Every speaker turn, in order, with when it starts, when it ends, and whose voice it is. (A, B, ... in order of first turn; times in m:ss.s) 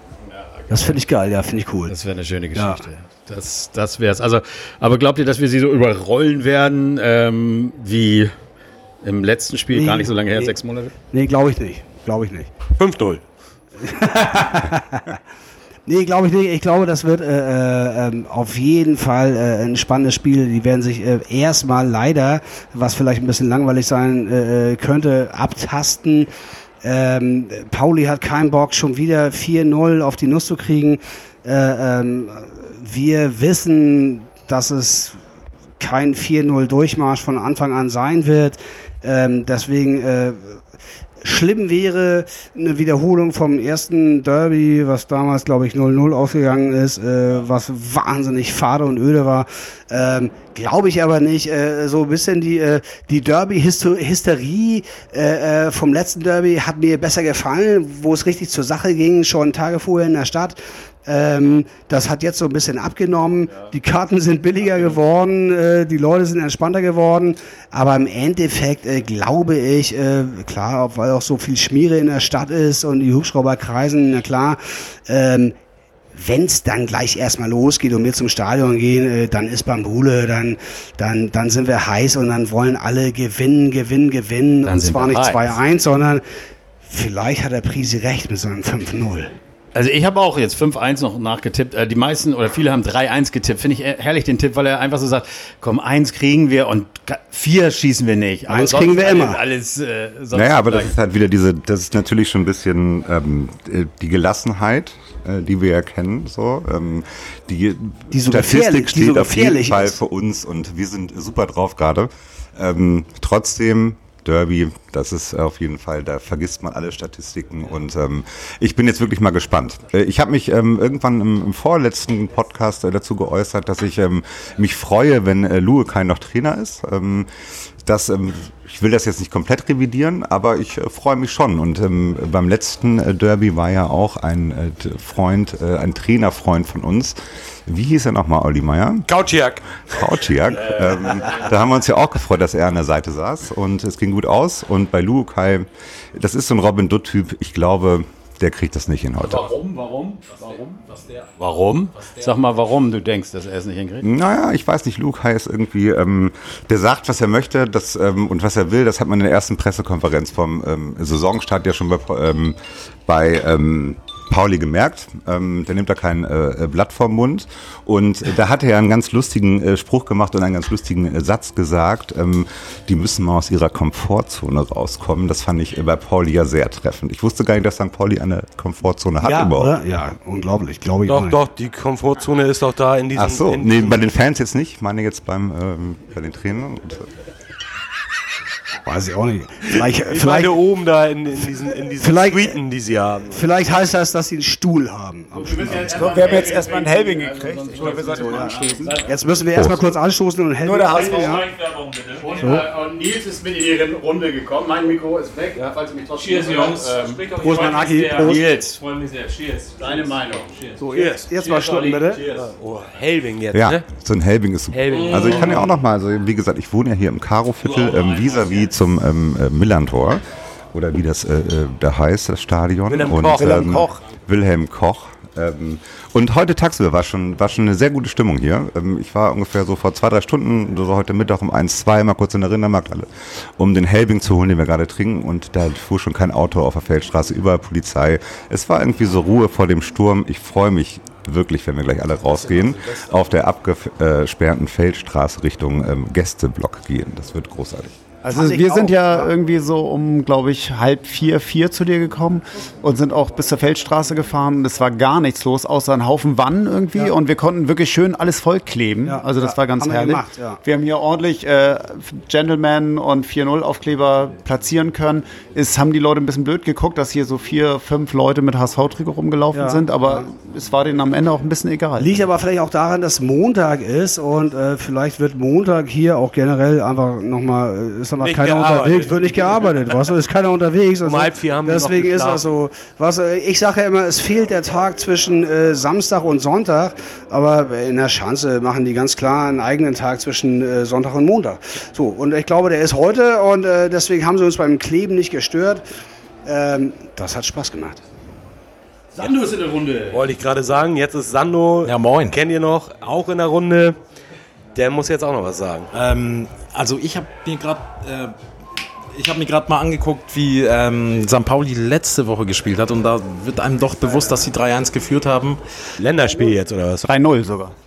0:00.3-0:01.0 A
0:00.7-0:02.0 B
0:01.9-0:08.3 A
0:02.5-0:02.8 B
0:09.0-0:10.9 A
0:09.7-0:10.5 B
0:11.1-0:12.5 B
0:12.8-0:13.2 C
0:13.8-0:15.1 B
0:15.9-0:26.3 B
0:26.8-0:35.2 B
0:35.8-0:40.6 B
0:41.2-1:15.5 B
1:16.2-1:26.2 B
1:24.6-1:25.6 A
1:26.8-1:29.3 B
1:29.7-1:41.0 A
1:38.5-1:39.4 B
1:40.3-2:07.3 D
1:48.1-1:50.0 B
2:07.8-2:17.1 D
2:17.7-2:19.1 D
2:19.1-2:19.8 C
2:19.7-2:29.5 D
2:29.2-2:34.0 A
2:34.0-2:59.8 D
2:59.2-3:01.4 B
3:01.1-3:04.0 C
3:03.1-3:07.1 D
3:08.8-3:10.6 B
3:10.0-3:13.4 C
3:12.0-3:12.6 B
3:13.3-3:16.3 B
3:15.4-3:19.0 A
3:15.8-3:19.0 E
3:18.2-3:21.5 B
3:20.6-3:21.4 E
3:20.9-3:21.5 A
3:22.1-3:30.8 A
3:22.4-3:22.6 B
3:25.6-3:28.3 C
3:27.4-3:28.4 B
3:30.8-3:32.2 B
3:30.9-3:31.3 C
3:31.4-3:32.5 A
3:32.3-3:33.8 C
3:33.5-3:40.2 D
3:34.7-3:35.6 C
3:40.7-4:08.0 D
3:42.9-3:43.8 C
3:43.3-3:44.0 E
4:08.2-4:32.2 E
4:08.3-4:09.3 B
4:19.0-4:20.6 B
4:29.5-4:30.2 B
4:32.0-4:55.8 B
4:38.2-4:39.4 C
4:41.0-4:42.4 C
4:56.4-4:58.0 B
4:59.2-5:00.2 A
5:00.1-5:04.0 C
5:01.8-5:02.4 F
5:04.8-5:05.9 C
5:05.9-5:08.4 F
5:09.1-5:15.6 F
5:16.0-5:17.1 C
5:17.1-5:17.7 E